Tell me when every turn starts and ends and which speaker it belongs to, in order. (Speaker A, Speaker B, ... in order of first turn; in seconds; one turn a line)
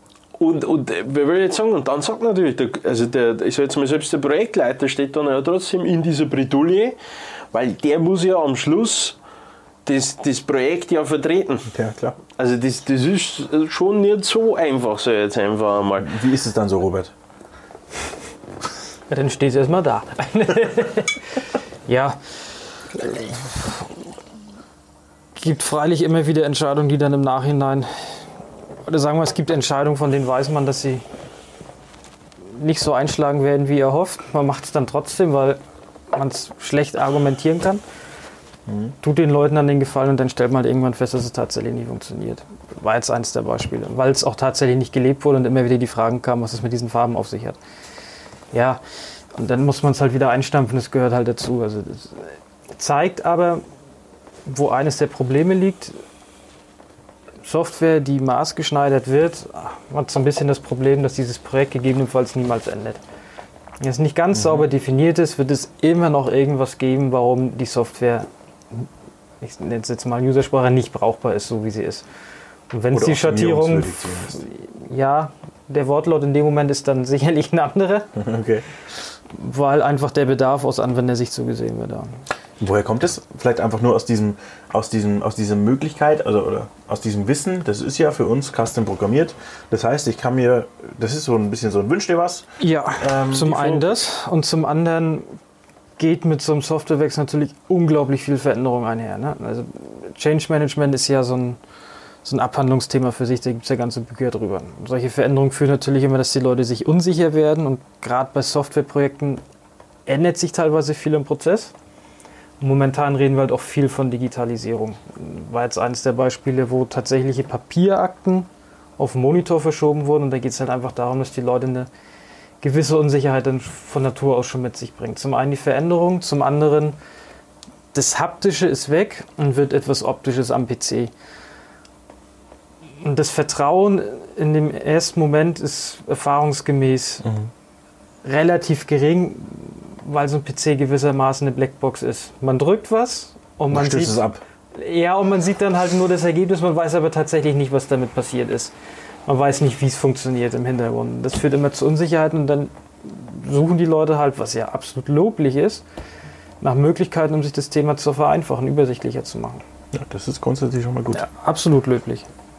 Speaker A: 0.4-7.0
Speaker A: 7.5-9.2
Speaker A: 9.9-11.7
Speaker B: 11.7-12.2
Speaker A: 12.3-16.1
Speaker B: 16.0-17.1
Speaker C: 19.1-22.2
Speaker C: 22.9-23.9
Speaker C: 25.4-28.3
Speaker C: 28.9-31.0
Speaker C: 32.5-35.6
Speaker C: 36.1-37.8
Speaker B: 38.7-39.0
Speaker C: 39.0-47.6
Speaker C: 48.5-48.8
Speaker C: 49.4-53.6
Speaker C: 54.5-56.0
Speaker C: 57.4-63.0
Speaker C: 63.8-68.9
Speaker B: 64.3-64.7
Speaker C: 69.4-72.0
Speaker C: 72.7-78.1
Speaker B: 72.9-74.4
Speaker B: 78.2-78.7
Speaker C: 79.3-82.2
Speaker B: 82.6-92.5
Speaker C: 92.6-95.3
Speaker B: 93.0-93.9
Speaker C: 96.0-101.6
Speaker C: 102.2-109.4
Speaker C: 110.1-111.7
Speaker C: 112.6-121.9
Speaker C: 122.6-127.0
Speaker C: 127.9-131.1
Speaker C: 133.0-137.2
Speaker B: 137.2-137.5
Speaker C: 138.2-144.2
Speaker B: 143.7-144.4
Speaker C: 144.7-148.7
Speaker C: 149.3-155.8
Speaker C: 156.6-159.6
Speaker B: 159.9-161.2
Speaker C: 161.1-162.3